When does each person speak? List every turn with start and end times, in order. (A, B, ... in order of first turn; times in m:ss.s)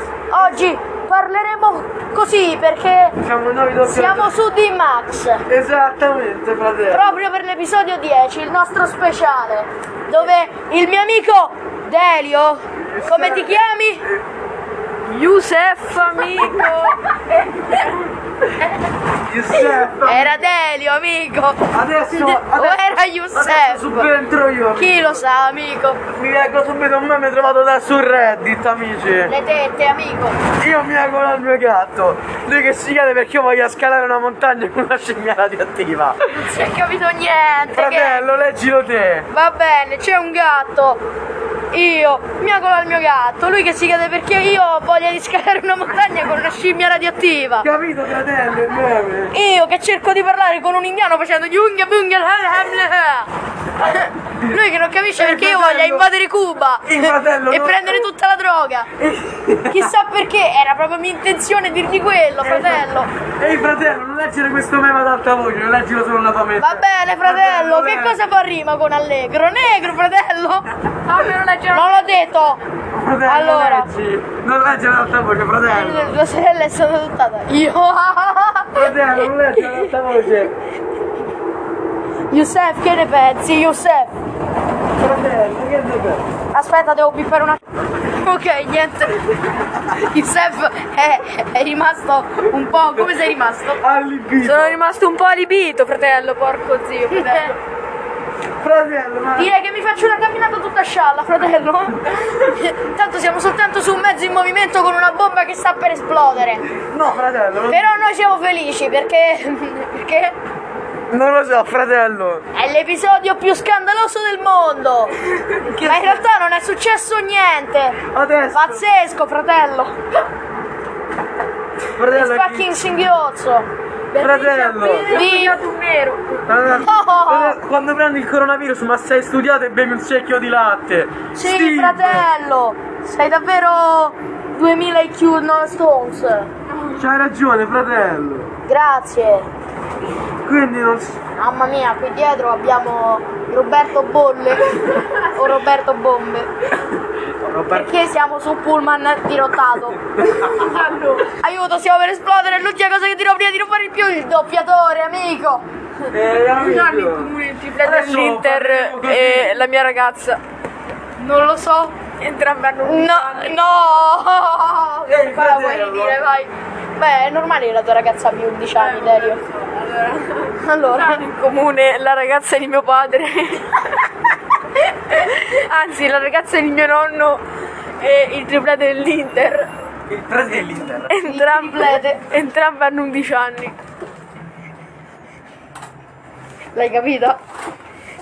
0:00.3-0:03.2 A
0:03.2-0:04.3 B
0:03.8-0:05.4 A
0:05.5-0:07.1 B
0:06.9-0:14.0 A
0:12.8-0:14.2 B
0:15.0-0:17.9 C
0:19.2-0:20.4 B
0:20.0-0:24.1 A
0:21.7-0:25.2 B
0:24.7-0:26.0 A
0:26.1-0:29.3 B
0:29.3-0:30.4 A
0:30.6-0:36.2 B
0:36.3-0:38.3 A
0:37.7-0:39.3 B
0:39.3-0:41.0 A
0:41.7-0:47.7 A
0:47.6-0:49.3 B
0:49.3-0:53.3 A
0:53.8-0:58.9 A
0:55.1-0:56.1 B
0:56.8-0:58.1 B
0:59.0-0:59.9 B
0:59.7-1:03.1 A
1:02.4-1:08.2 B
1:06.6-1:10.7 A
1:11.0-1:12.2 C
1:11.7-1:12.6 A
1:12.9-1:16.2 B
1:13.2-1:13.9 A
1:15.7-1:19.9 A
1:18.7-1:20.5 B
1:22.3-1:24.1 A
1:25.0-1:26.2 B
1:26.5-1:27.6 A
1:28.2-1:33.8 A
1:33.8-1:34.8 B
1:34.4-1:37.6 C
1:37.1-1:37.5 A
1:38.6-1:39.5 B
1:39.4-1:46.7 A
1:46.9-1:47.9 B
1:47.7-1:50.4 A
1:51.1-1:52.4 B
1:52.5-1:55.1 A
1:55.6-1:56.2 B
1:55.7-1:58.0 A
1:58.1-1:58.9 B
1:58.5-2:00.0 A
2:02.0-2:02.7 B
2:02.1-2:03.7 A
2:04.1-2:06.5 C
2:04.2-2:05.2 B
2:05.1-2:05.6 A
2:06.5-2:12.3 B
2:06.8-2:07.6 A
2:11.3-2:16.5 A
2:17.0-2:18.5 B
2:18.7-2:19.5 A
2:20.4-2:21.2 B
2:21.4-2:26.5 A
2:27.4-2:27.9 B
2:27.7-2:30.0 A
2:30.4-2:31.3 C
2:31.3-2:35.6 A
2:36.1-2:39.6 B
2:36.2-2:40.4 C
2:41.2-2:41.9 A
2:42.0-2:43.8 C
2:42.8-2:49.4 A
2:45.1-2:46.2 B
2:48.8-2:54.1 C
2:50.6-2:51.2 A
2:54.8-2:57.4 C
2:58.0-2:59.7 C
3:00.1-3:01.1 B
3:01.1-3:03.8 C
3:01.2-3:02.2 A
3:06.7-3:07.4 A